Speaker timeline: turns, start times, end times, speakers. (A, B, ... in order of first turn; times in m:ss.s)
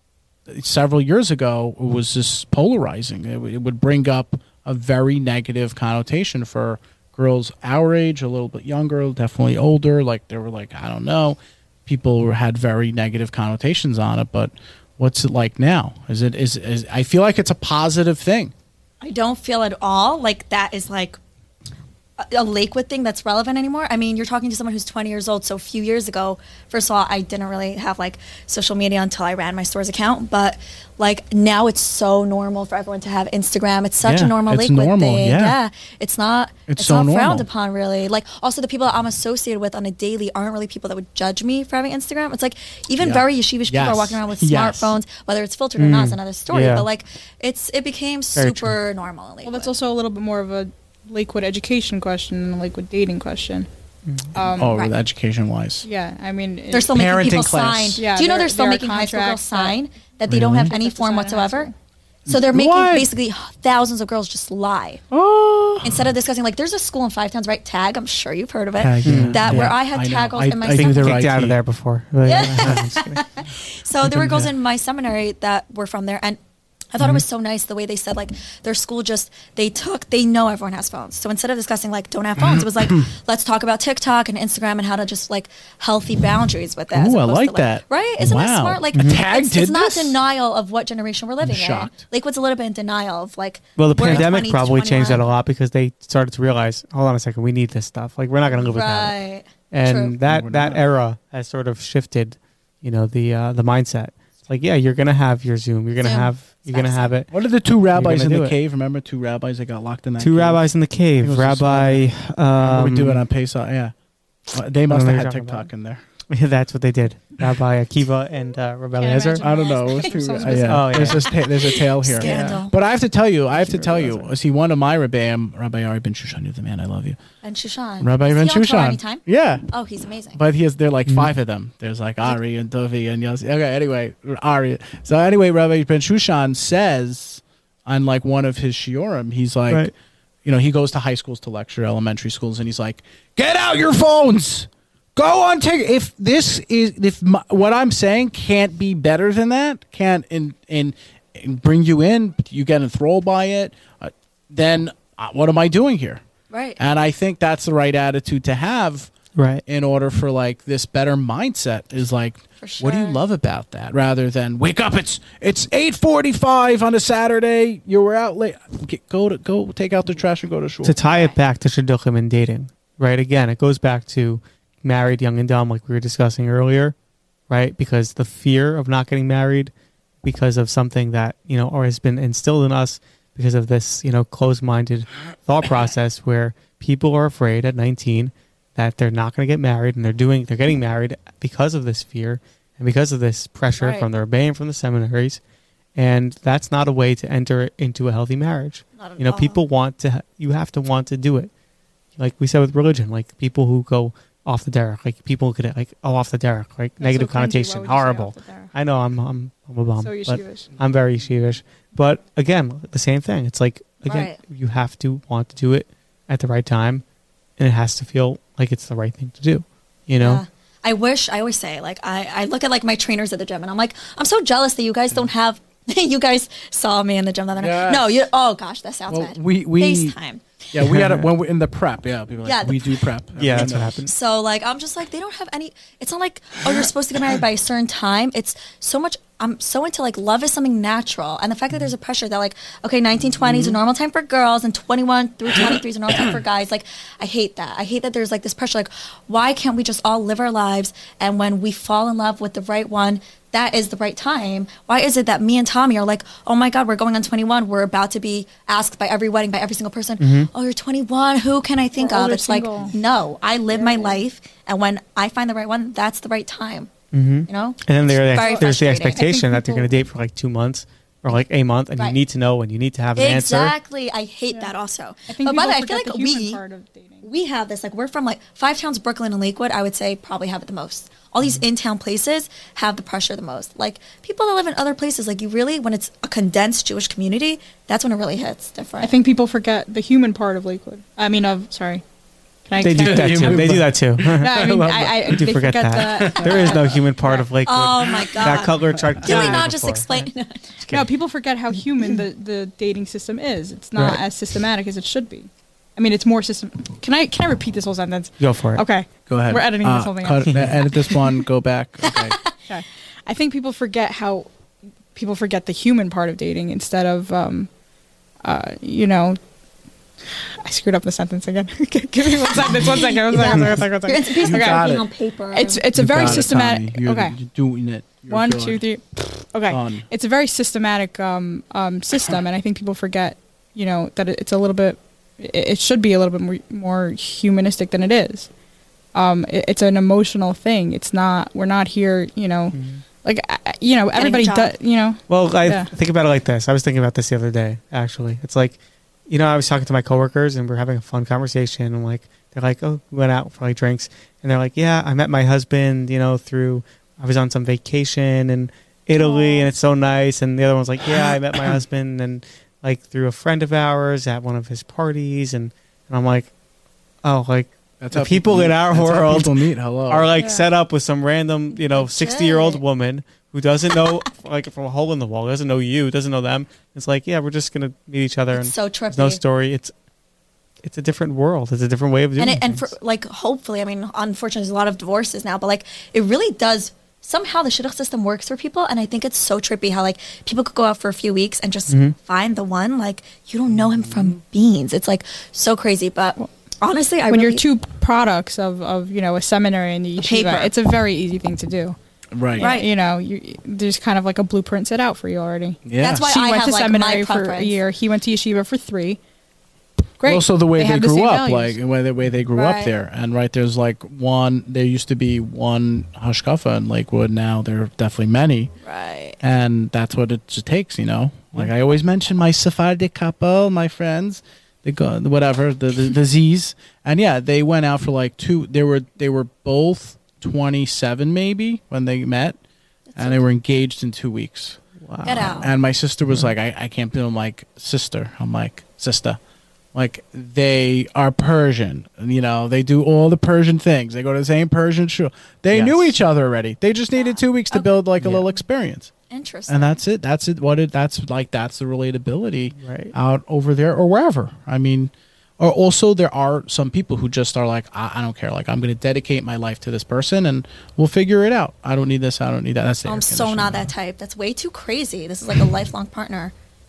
0:00.5-0:18.5 A
0:19.0-0:21.2 B
0:22.2-0:49.8 B
0:34.0-0:35.6 A
0:36.7-0:37.5 A
0:43.0-0:45.0 A
0:45.8-0:46.9 C
0:48.4-0:48.8 C
0:49.4-0:53.7 D
0:54.0-0:54.3 C
0:54.3-0:54.8 D
0:54.5-0:55.9 A
0:55.8-0:56.9 D
0:56.7-1:01.7 B
0:56.9-0:58.0 A
0:58.0-0:59.8 D
1:00.3-1:00.7 A
1:00.6-1:01.7 D
1:02.2-1:05.0 B
1:02.3-1:03.1 A
1:05.1-1:06.1 A
1:05.8-1:11.2 B
1:08.8-1:11.6 A
1:09.0-1:09.7 C
1:10.7-1:13.2 C
1:12.2-1:16.4 B
1:14.0-1:14.5 A
1:16.9-1:35.2 B
1:22.4-1:23.0 A
1:26.9-1:30.2 A
1:28.9-1:29.2 C
1:31.4-1:32.0 A
1:33.8-1:39.2 C
1:34.0-1:34.3 A
1:38.5-1:40.1 B
1:39.7-1:47.3 C
1:40.2-1:40.8 A
1:46.0-1:47.1 B
1:47.3-1:50.6 A
1:47.9-1:48.5 C
1:50.2-1:53.2 C
1:51.2-1:52.1 A
1:52.6-1:53.9 A
1:54.5-1:56.0 A
1:54.9-1:55.7 C
1:56.3-1:59.4 C
1:59.0-2:01.8 D
1:59.4-2:07.2 A
2:00.6-2:01.3 C
2:01.6-2:02.7 B
2:02.2-2:02.5 C
2:03.5-2:04.3 C
2:07.4-2:10.4 B
2:08.0-2:09.6 A
2:10.3-2:19.9 A
2:20.4-2:36.2 A
2:36.5-2:36.8 B
2:36.8-2:39.1 A
2:39.4-2:39.6 C
2:39.6-2:51.0 A
2:42.6-2:43.2 B
2:50.8-2:56.9 C
2:51.0-2:51.4 B
2:57.5-2:59.7 C
3:00.2-3:15.4 C
3:13.8-3:14.1 B
3:16.0-3:21.5 C
3:19.0-3:19.6 B
3:22.2-3:37.0 C
3:27.0-3:28.7 D
3:30.0-3:30.7 D
3:34.0-3:34.4 B
3:37.6-3:40.4 C
3:40.2-3:50.4 B
3:47.6-3:48.1 A
3:49.1-3:50.2 A
3:50.7-3:54.0 A
3:50.8-3:51.3 C
3:52.4-3:53.0 B
3:53.4-3:54.1 C
3:54.0-4:26.9 B
4:20.2-4:20.5 C
4:22.0-4:22.9 D
4:23.7-4:24.2 D
4:27.1-4:33.7 C
4:27.5-4:29.3 B
4:29.2-4:29.9 D
4:33.2-4:36.6 B
4:35.3-4:37.3 D
4:37.2-4:49.1 B
4:49.0-4:52.0 D
4:52.7-4:53.7 D
4:52.8-5:00.3 C
4:52.8-4:54.3 A
4:54.2-4:57.4 D
4:57.6-5:00.7 B
5:00.9-5:11.2 D
5:04.0-5:04.2 C
5:08.4-5:08.8 C
5:09.3-5:12.4 A
5:12.7-5:14.5 D
5:15.1-5:17.7 D
5:18.4-5:19.4 D
5:20.3-5:25.0 D
5:22.6-5:26.4 B
5:24.4-5:25.1 A
5:25.5-5:27.4 D
5:25.9-5:28.8 A
5:28.3-5:38.5 D
5:29.7-5:30.0 A
5:39.1-5:45.9 D
5:42.7-5:43.0 C
5:44.1-5:44.7 B
5:45.3-5:48.8 C
5:49.3-6:06.5 C
5:59.2-5:59.7 B
6:01.2-6:01.8 A
6:07.2-6:09.5 C
6:08.0-6:10.3 A
6:10.1-6:19.9 C
6:10.4-6:10.6 D
6:11.7-6:12.8 B
6:18.5-6:19.4 B
6:20.8-6:22.9 C
6:22.4-6:37.6 B
6:31.9-6:32.1 C
6:37.3-6:42.0 D
6:40.2-6:40.7 B
6:42.3-6:42.7 A
6:42.5-6:49.2 D
6:42.6-6:42.9 B
6:45.8-6:46.3 A
6:46.0-6:47.8 B
6:50.2-6:51.8 D
6:50.2-6:58.7 A
6:52.5-6:52.9 B
6:58.8-6:59.4 B
6:59.4-7:12.6 A
7:13.1-7:13.4 B
7:13.2-7:14.8 A
7:15.0-7:15.6 C
7:15.2-7:15.7 B
7:15.4-7:19.4 A
7:19.9-7:29.1 A
7:25.7-7:26.1 C
7:27.2-7:27.9 B
7:28.2-7:28.5 C
7:29.3-7:30.0 B
7:29.7-7:43.9 A
7:32.8-7:33.1 C
7:43.0-7:46.5 B